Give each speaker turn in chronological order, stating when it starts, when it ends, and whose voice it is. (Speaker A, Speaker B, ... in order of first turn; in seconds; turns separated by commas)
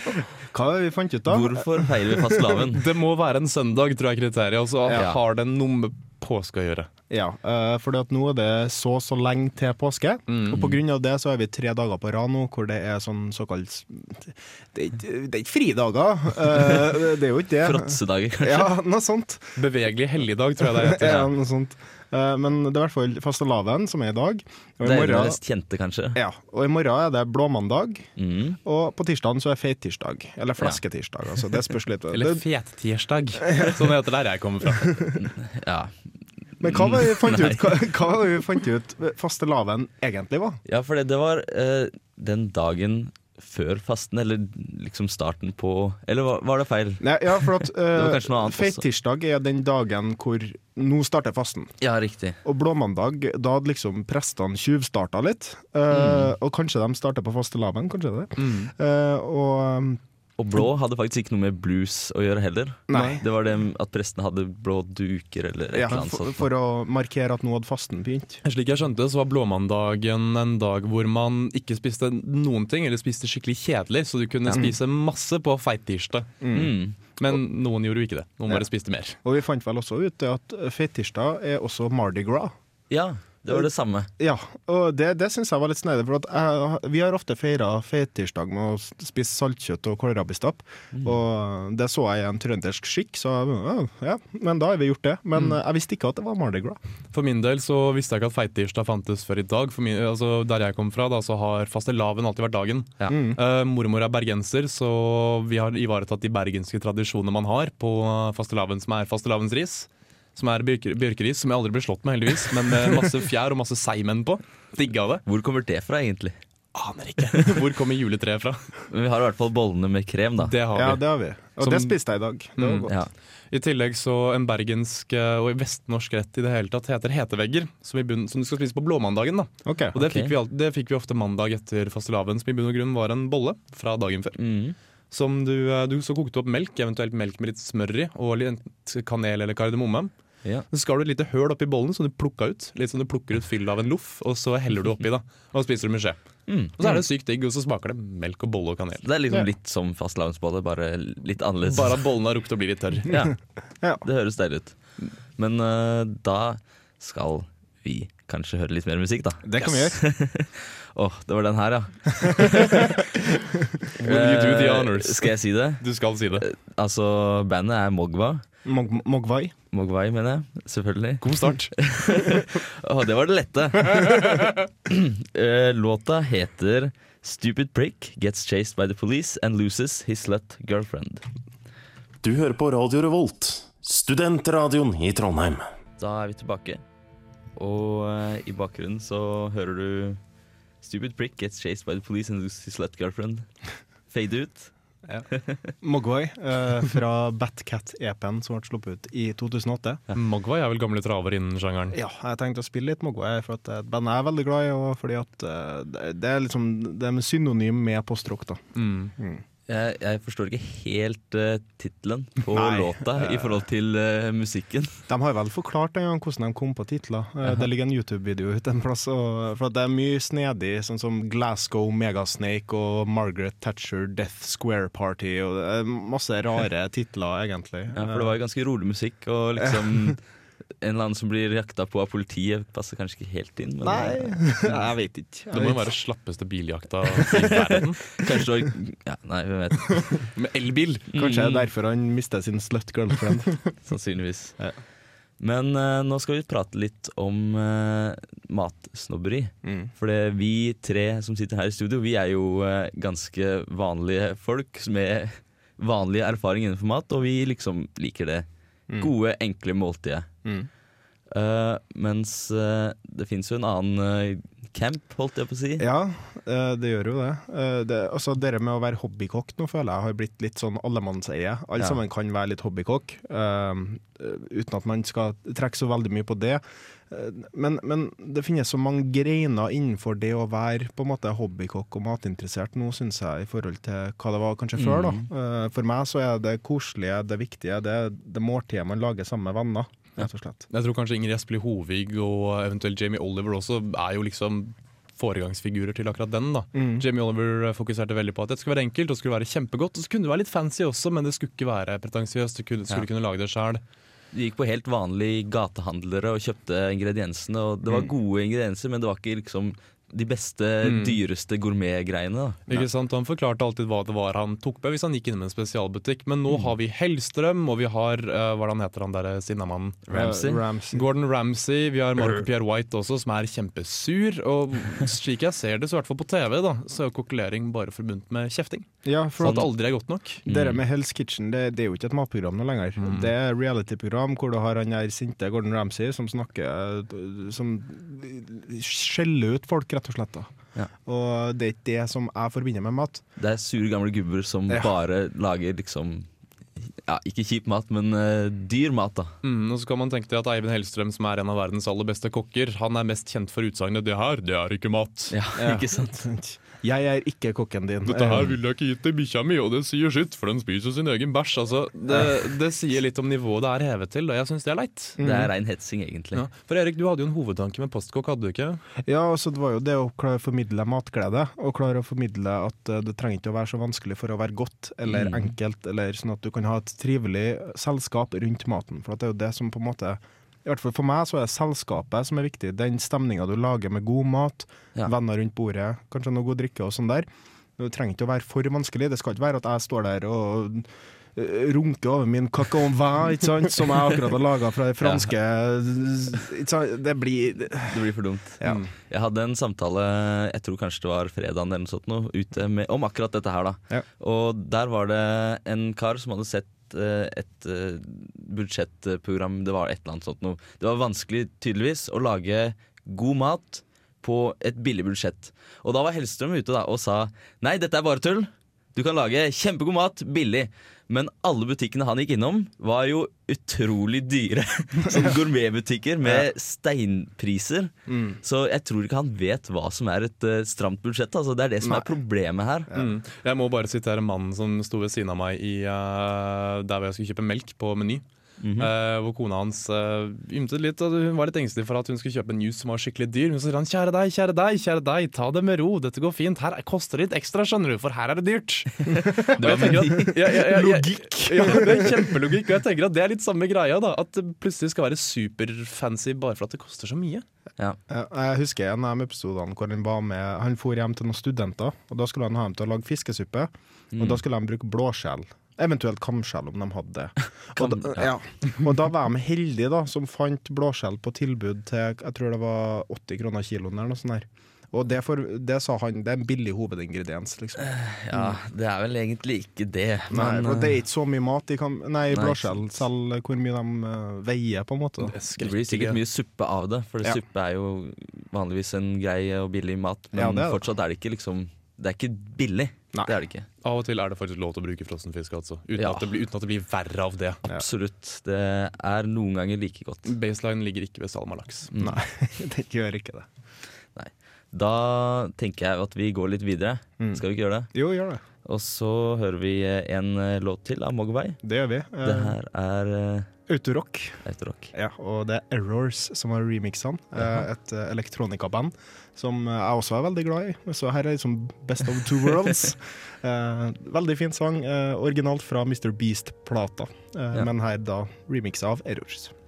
Speaker A: 0.5-2.6, Speaker B: 1.3-2.8, Speaker C: 2.7-6.9, Speaker A: 7.1-19.6, Speaker C: 10.3-10.8, Speaker B: 17.6-18.7, Speaker C: 19.6-21.2, Speaker A: 20.6-25.4, Speaker B: 24.8-26.2, Speaker A: 26.1-28.1, Speaker B: 28.2-28.6, Speaker A: 28.6-32.4, Speaker C: 32.1-35.0, Speaker B: 35.2-35.9, Speaker A: 36.6-40.6, Speaker B: 36.6-37.8, Speaker B: 40.6-48.8, Speaker A: 47.0-51.7, Speaker B: 51.8-52.4, Speaker A: 52.4-60.0, Speaker B: 55.9-56.3, Speaker C: 58.4-58.7, Speaker B: 60.4-66.5, Speaker A: 62.9-63.2, Speaker A: 65.7-68.4, Speaker C: 68.4-76.3, Speaker A: 76.4-76.7, Speaker B: 76.5-77.0, Speaker C: 77.2-79.2, Speaker A: 79.2-82.5, Speaker B: 82.9-84.1, Speaker A: 83.5-96.8, Speaker C: 97.1-115.2, Speaker A: 103.1-103.4, Speaker B: 115.2-116.4, Speaker C: 116.7-118.6, Speaker B: 118.9-120.5, Speaker C: 120.4-121.0, Speaker A: 120.7-122.9, Speaker C: 121.6-121.9, Speaker C: 122.6-122.9, Speaker C: 123.5-134.4, Speaker A: 129.7-129.9, Speaker B: 130.0-130.3, Speaker B: 134.4-134.7, Speaker C: 135.1-140.1, Speaker C: 140.7-146.2, Speaker B: 146.5-146.7, Speaker C: 146.8-149.0, Speaker B: 149.0-152.0, Speaker C: 151.7-153.1, Speaker B: 154.0-154.8, Speaker B: 155.3-162.9, Speaker A: 159.4-160.0, Speaker C: 164.0-166.4, Speaker B: 164.0-165.8, Speaker B: 166.4-168.4, Speaker A: 168.6-169.5, Speaker B: 169.7-181.2, Speaker C: 171.2-171.8, Speaker D: 182.2-185.7, Speaker B: 186.0-186.8, Speaker B: 187.6-190.2, Speaker B: 190.8-193.4, Speaker B: 194.1-194.7, Speaker B: 195.3-195.7, Speaker A: 195.8-200.0, Speaker C: 200.1-201.9, Speaker A: 201.9-208.6, Speaker C: 208.8-209.1, Speaker A: 209.2-209.4, Speaker B: 209.7-214.9, Speaker A: 212.5-213.6, Speaker A: 215.1-228.3, Speaker B: 227.9-230.2, Speaker A: 229.6-230.1, Speaker B: 230.8-234.4, Speaker A: 233.8-235.9, Speaker C: 235.5-238.0, Speaker B: 238.2-240.1, Speaker C: 240.3-241.1, Speaker B: 241.1-241.7, Speaker A: 241.1-243.7, Speaker B: 243.8-244.6, Speaker B: 245.4-258.4, Speaker A: 249.6-249.9, Speaker B: 259.0-260.3, Speaker B: 261.3-265.9, Speaker A: 265.8-290.6, Speaker B: 284.8-285.3, Speaker C: 290.7-303.8, Speaker A: 296.7-297.1, Speaker B: 304.3-312.8, Speaker C: 310.8-311.2, Speaker C: 312.7-320.0, Speaker B: 320.1-320.6, Speaker A: 320.1-321.0, Speaker C: 320.9-328.9, Speaker A: 329.0-329.7, Speaker C: 329.4-330.4, Speaker B: 330.4-330.8, Speaker A: 330.4-340.5, Speaker C: 333.0-333.3, Speaker A: 341.1-343.2, Speaker B: 343.4-346.3, Speaker B: 347.0-349.3, Speaker C: 349.4-355.3, Speaker B: 355.3-356.2, Speaker A: 355.6-358.5, Speaker C: 358.1-365.2, Speaker A: 365.2-365.5, Speaker B: 365.2-366.4, Speaker C: 366.3-368.8, Speaker A: 369.1-387.3, Speaker B: 375.1-375.5, Speaker A: 387.8-398.0, Speaker B: 395.0-395.3, Speaker B: 397.9-432.9, Speaker A: 398.6-398.9, Speaker A: 428.1-428.4, Speaker A: 431.8-432.1, Speaker C: 432.9-438.2, Speaker B: 438.6-438.9, Speaker C: 438.8-457.4, Speaker B: 449.1-450.4, Speaker A: 449.2-452.3, Speaker A: 458.1-478.6, Speaker B: 464.1-464.4, Speaker B: 467.8-468.3, Speaker B: 477.8-480.9, Speaker A: 480.3-485.3, Speaker B: 482.3-483.0, Speaker C: 485.2-486.2, Speaker B: 485.6-493.6, Speaker A: 490.3-490.9, Speaker C: 493.8-497.6, Speaker B: 496.0-496.2, Speaker B: 497.7-500.3, Speaker C: 500.2-501.9, Speaker A: 502.0-503.5, Speaker B: 504.1-507.9, Speaker A: 507.2-508.4, Speaker B: 508.6-511.6, Speaker A: 511.6-512.5, Speaker B: 512.2-513.5, Speaker A: 513.7-514.4, Speaker B: 514.4-514.9, Speaker A: 514.9-529.5